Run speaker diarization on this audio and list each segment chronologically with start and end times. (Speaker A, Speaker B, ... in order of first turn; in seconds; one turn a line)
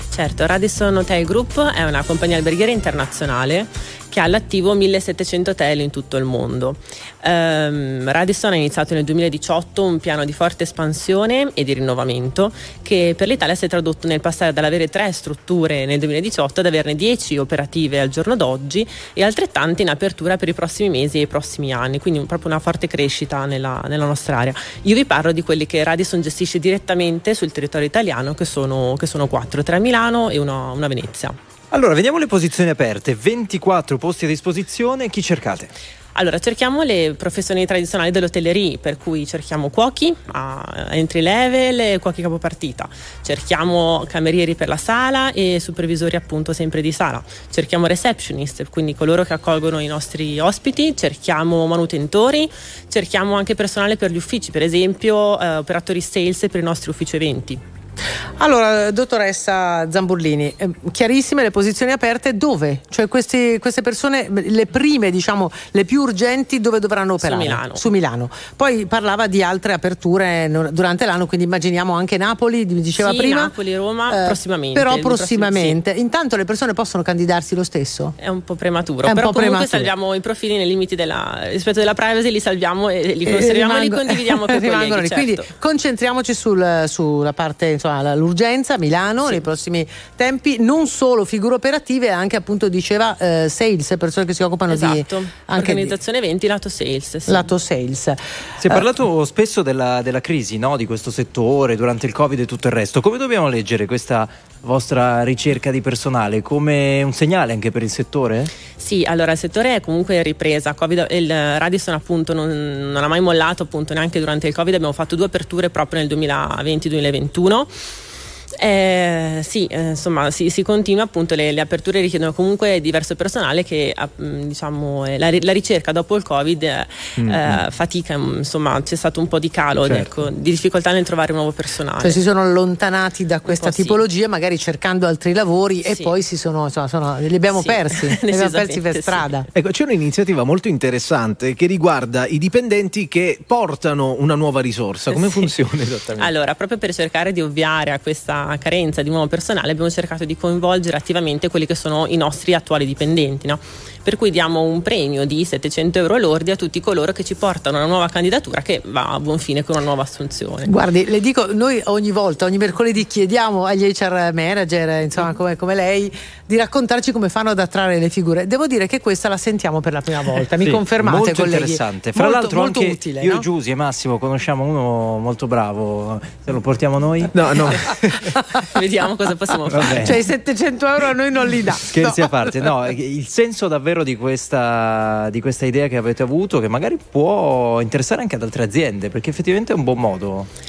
Speaker A: 0.1-31.4
Speaker B: 31.7-35.7
Speaker A: 36.1-57.6
Speaker C: 58.4-73.5
Speaker A: 67.2-67.9
Speaker A: 73.0-75.8
Speaker C: 74.1-78.1
Speaker A: 78.2-85.5
Speaker C: 79.0-79.9
Speaker C: 83.2-96.0
Speaker A: 94.7-97.5
Speaker C: 97.3-98.8
Speaker B: 98.6-108.5
Speaker A: 108.8-117.7
Speaker A: 118.6-132.2
Speaker D: 127.2-127.6
Speaker C: 132.0-139.4
Speaker A: 133.5-134.0
Speaker A: 135.8-136.1
Speaker A: 137.5-139.4
Speaker D: 139.5-146.3
Speaker A: 145.1-145.5
Speaker A: 146.2-160.7
Speaker C: 160.7-173.5
Speaker B: 170.6-177.8
Speaker D: 177.3-178.2
Speaker A: 178.7-180.2
Speaker B: 179.7-180.2
Speaker C: 180.0-182.3
Speaker B: 181.9-190.5